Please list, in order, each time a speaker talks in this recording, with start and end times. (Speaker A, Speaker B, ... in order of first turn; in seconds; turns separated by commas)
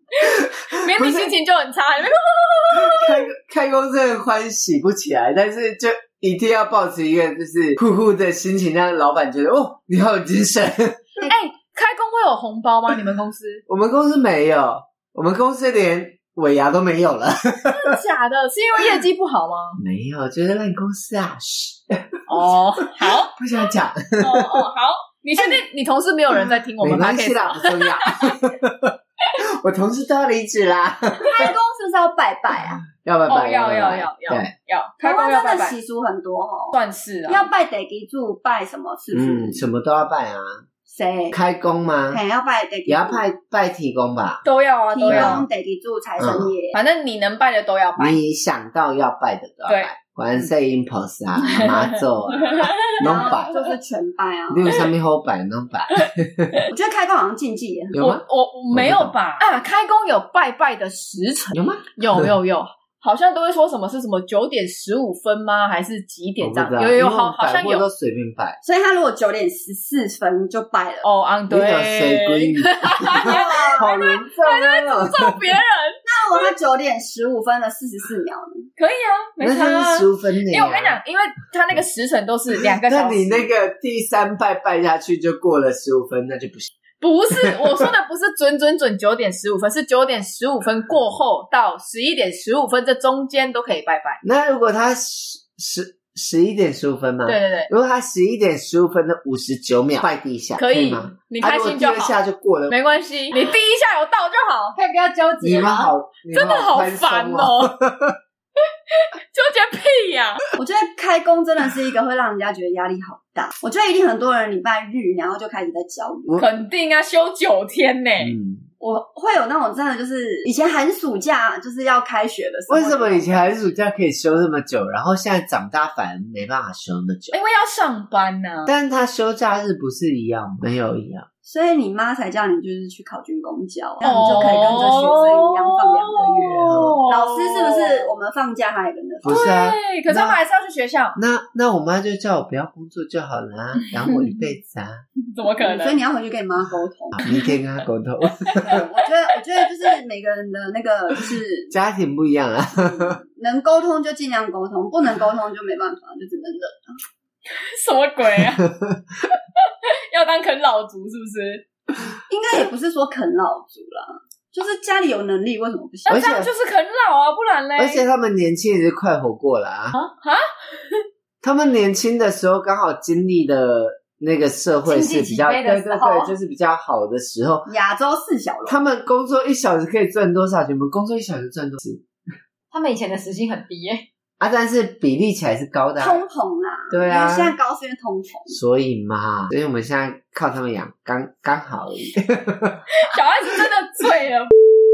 Speaker A: 0.2-3.2, Speaker B: 0.2-1.3, Speaker B: 2.7-11.1, Speaker A: 11.2-13.6, Speaker B: 13.7-17.9, Speaker A: 17.7-19.8, Speaker B: 19.8-24.7, Speaker A: 22.3-23.4, Speaker A: 24.2-28.3, Speaker C: 25.4-25.6, Speaker B: 26.8-31.5, Speaker C: 31.2-32.8, Speaker B: 32.8-34.5, Speaker A: 33.3-35.8, Speaker C: 35.0-36.7, Speaker A: 36.7-37.5, Speaker C: 37.3-39.6, Speaker B: 39.1-40.6, Speaker C: 40.9-41.4, Speaker B: 41.3-42.2, Speaker C: 42.1-43.2, Speaker B: 42.9-44.4, Speaker A: 44.4-45.5, Speaker C: 44.9-46.8, Speaker B: 45.1-45.5, Speaker B: 46.2-46.5, Speaker A: 46.7-48.2, Speaker B: 48.0-53.5, Speaker A: 51.4-53.1, Speaker C: 53.0-54.8, Speaker B: 54.5-56.6, Speaker C: 56.7-57.9, Speaker B: 57.9-59.1, Speaker A: 58.0-67.8, Speaker B: 61.5-62.3, Speaker B: 66.4-68.6, Speaker C: 68.6-71.1, Speaker A: 71.0-76.5, Speaker B: 71.5-75.4, Speaker C: 73.1-74.0, Speaker C: 76.0-78.7, Speaker A: 78.8-83.5, Speaker B: 79.4-81.0, Speaker B: 82.8-86.7, Speaker A: 87.0-94.2, Speaker B: 87.4-87.9, Speaker B: 94.2-102.7, Speaker A: 97.2-97.7, Speaker A: 100.6-102.2, Speaker A: 102.7-104.8, Speaker D: 104.7-105.9, Speaker B: 105.4-108.2, Speaker A: 106.3-107.7, Speaker A: 108.9-110.4, Speaker C: 110.5-116.4, Speaker A: 116.4-118.3, Speaker B: 118.2-118.7, Speaker C: 118.8-123.5, Speaker B: 122.7-127.3, Speaker A: 127.3-128.7, Speaker B: 128.7-131.3, Speaker C: 131.4-139.5, Speaker A: 134.0-138.1, Speaker B: 134.1-134.5, Speaker B: 136.6-137.0, Speaker B: 139.2-140.4, Speaker A: 139.2-141.2, Speaker B: 141.1-145.0, Speaker A: 143.8-144.3, Speaker A: 145.3-146.0, Speaker C: 145.6-147.3, Speaker B: 147.1-148.8, Speaker A: 148.4-148.8, Speaker C: 148.6-151.7, Speaker B: 151.7-153.2, Speaker C: 153.3-156.9, Speaker A: 157.5-158.7, Speaker A: 159.2-161.6, Speaker C: 162.3-166.2, Speaker A: 166.1-168.0, Speaker B: 166.1-166.5, Speaker B: 167.8-169.9, Speaker A: 169.9-171.0, Speaker B: 171.4-177.7, Speaker D: 174.8-176.3, Speaker C: 177.7-178.8, Speaker B: 178.7-182.0, Speaker D: 182.7-184.1, Speaker B: 184.4-186.2, Speaker C: 186.0-188.6, Speaker B: 186.9-187.6, Speaker B: 188.5-192.8, Speaker A: 192.9-194.5